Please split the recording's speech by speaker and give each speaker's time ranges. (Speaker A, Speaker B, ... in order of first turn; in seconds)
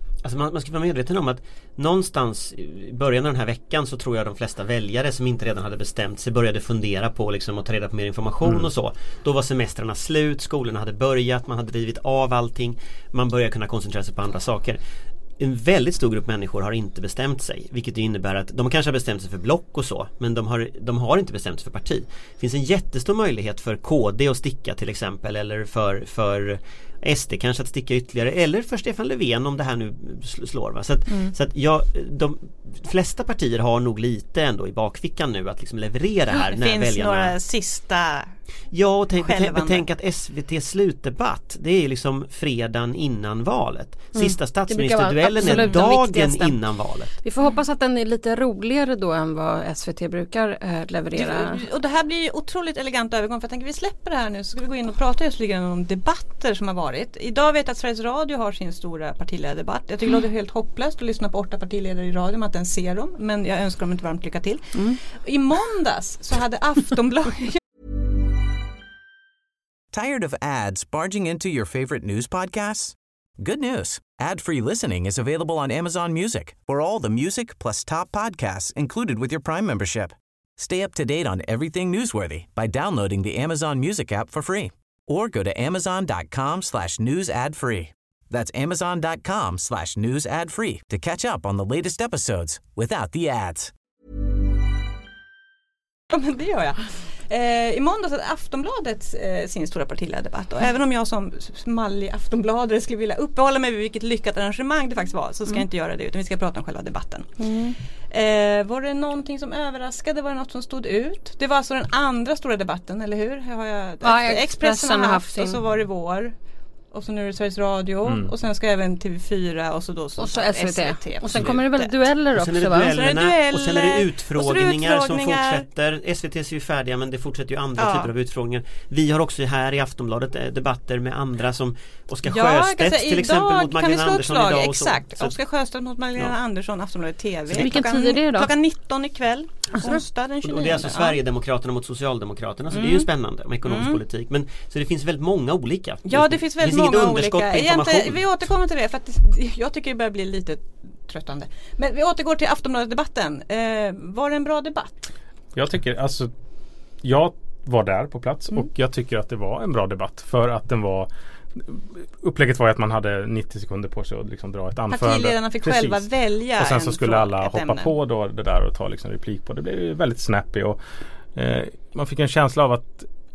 Speaker A: 0.2-14.8, 15.4-37.4, 38.7-47.1, 122.3-135.3, 140.4-148.2
Speaker B: 36.3-38.3, 39.1-39.8, 45.4-45.7, 51.1-67.6, 96.1-107.3, 108.1-116.3, 116.9-121.9, 122.8-125.6, 127.8-128.1, 132.2-141.2, 142.7-143.1, 143.6-144.0, 146.1-155.1, 164.9-167.9
Speaker C: 44.1-46.6, 47.2-51.6, 107.4-107.8, 114.0-115.6, 120.2-122.9, 137.5-138.5
Speaker D: 69.9-93.7
Speaker E: 118.0-118.3, 155.5-156.3, 157.0-170.8, 171.3-173.1